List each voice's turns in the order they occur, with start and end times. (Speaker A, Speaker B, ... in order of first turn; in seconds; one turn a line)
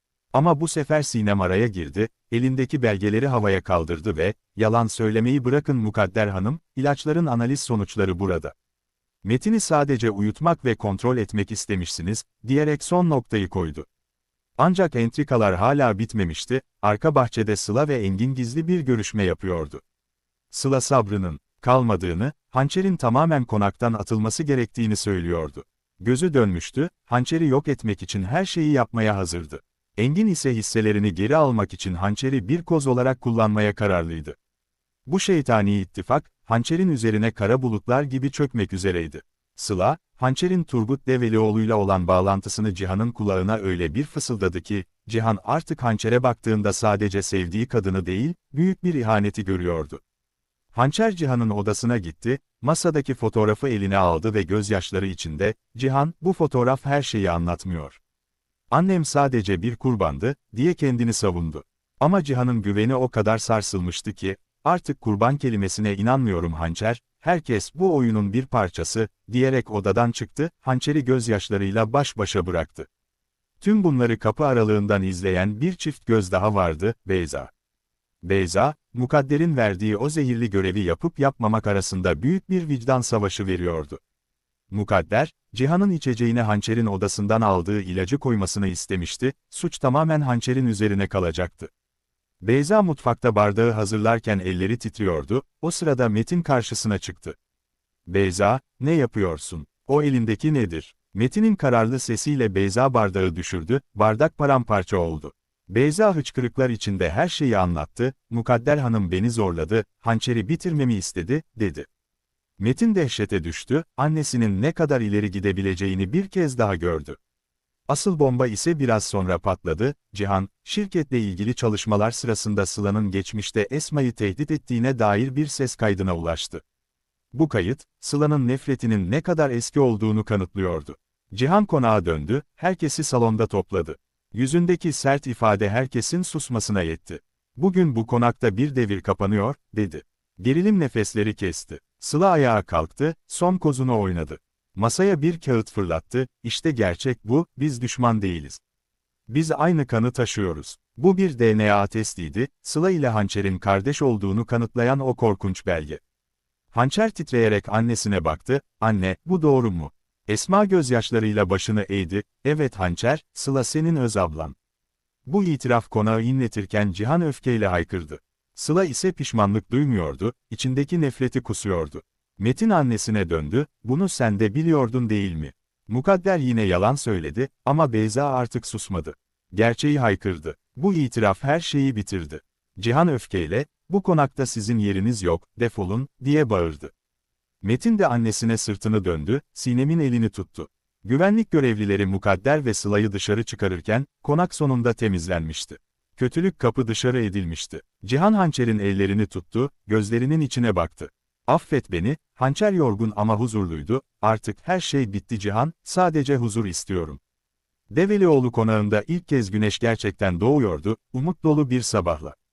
Speaker A: 0.3-8.5
Speaker A: 9.2-13.9
Speaker A: 14.6-19.8
Speaker A: 20.5-34.4
Speaker A: 35.1-50.0
Speaker A: 50.7-58.0
Speaker A: 58.7-72.9
Speaker A: 73.6-77.5
Speaker A: 78.2-84.0
Speaker A: 84.7-91.7
Speaker A: 92.4-97.4
Speaker A: 98.1-111.9
Speaker A: 112.6-117.2
Speaker A: 117.9-126.6
Speaker A: 127.3-148.6
Speaker A: 149.3-156.0
Speaker A: 156.7-164.6
Speaker A: 165.3-186.9
Speaker A: 187.6-207.2
Speaker A: 207.9-212.4